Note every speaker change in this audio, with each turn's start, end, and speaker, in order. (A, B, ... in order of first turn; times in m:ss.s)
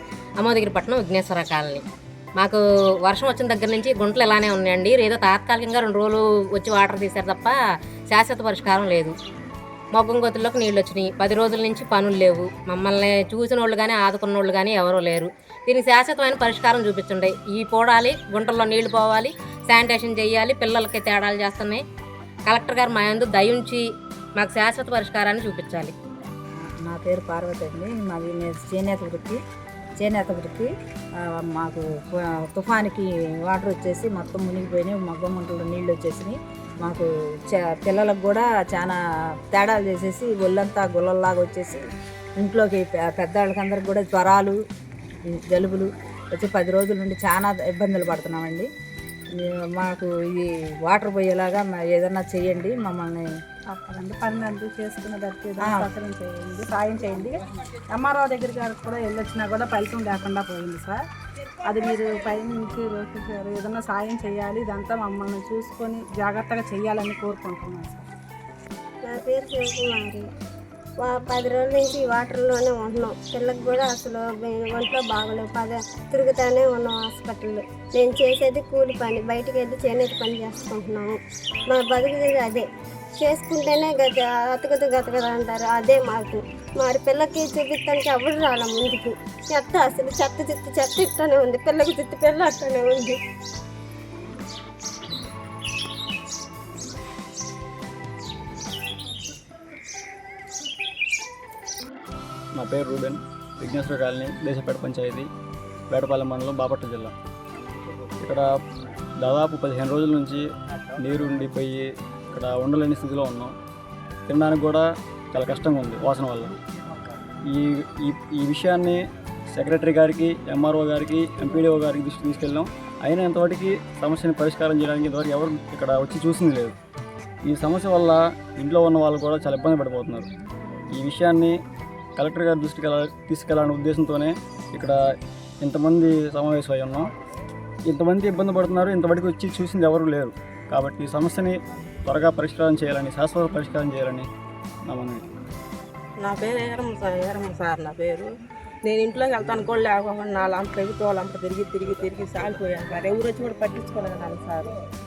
0:00.4-0:01.8 A
0:02.4-0:07.5 A
0:08.1-0:09.1 A
0:09.9-0:21.8 A
0:22.5-0:23.8 A
0:24.4-0:25.9 A
0:26.8-0:29.4 B
0:30.0-0:30.7 B
0:31.2-0:39.0 B
0:39.5-0:41.8 B
0:42.4-0:44.6 B
0:45.4-0:48.7 B
0:49.4-0:53.2 B
0:53.7-0:57.4 C
0:55.6-0:55.9 B
0:57.9-1:01.0 C
1:01.6-1:08.1 C
1:09.0-1:10.3 D
1:11.0-1:21.2 D
1:21.7-1:22.6 D
1:23.2-1:33.2 D
1:42.5-1:45.3 E
1:45.9-1:47.1 E
1:48.2-1:48.5 E
1:49.2-1:50.4 E
1:51.0-1:53.5 E
1:54.3-1:56.5 E
1:57.4-2:06.7 E
2:07.4-2:10.3 E
2:10.9-2:11.6 E
2:12.2-2:15.0 E
2:15.6-2:17.1 E
2:17.9-2:24.3 E
2:24.8-2:25.2 E
2:26.2-2:28.3 F
2:28.8-2:34.7 F